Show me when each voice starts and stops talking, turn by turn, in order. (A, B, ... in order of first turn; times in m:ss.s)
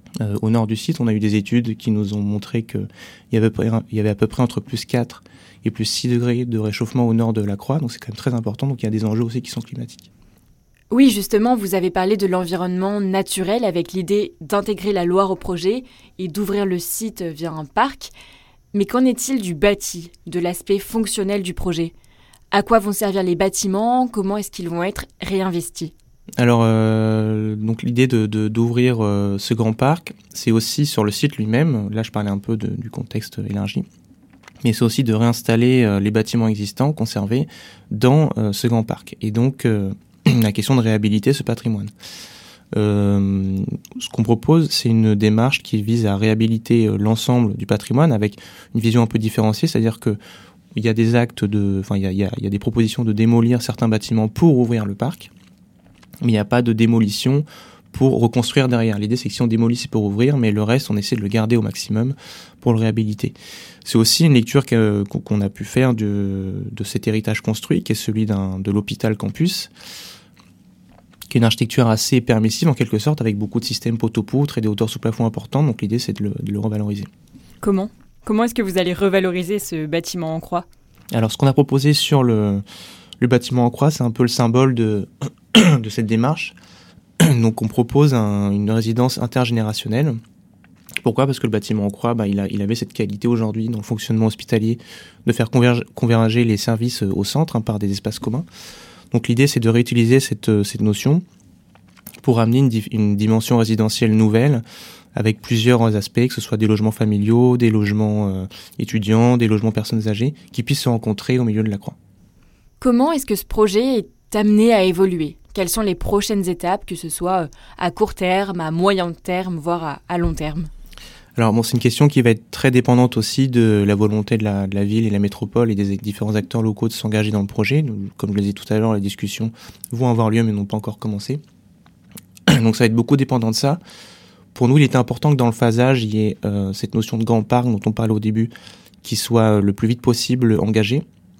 0:00.2-0:10.1 A
0:10.9-0:18.1 B
0:18.7-0:21.9 B
0:22.5-0:25.9 B
0:26.4-0:33.8 A
0:34.6-0:41.9 A
0:42.7-0:50.2 A
0:50.7-0:55.3 A
0:56.2-1:09.7 A
1:11.3-1:17.1 A
1:17.6-1:20.6 B
1:21.1-1:22.6 A
1:23.2-1:26.6 A
1:27.2-1:30.2 A
1:31.0-1:38.4 A
1:39.1-1:41.2 A
1:42.2-1:44.6 A
1:45.1-1:52.0 A
1:52.8-2:00.7 B
2:01.4-2:11.4 A
2:12.5-2:13.8 A
2:14.5-2:18.5 A
2:19.0-2:21.0 A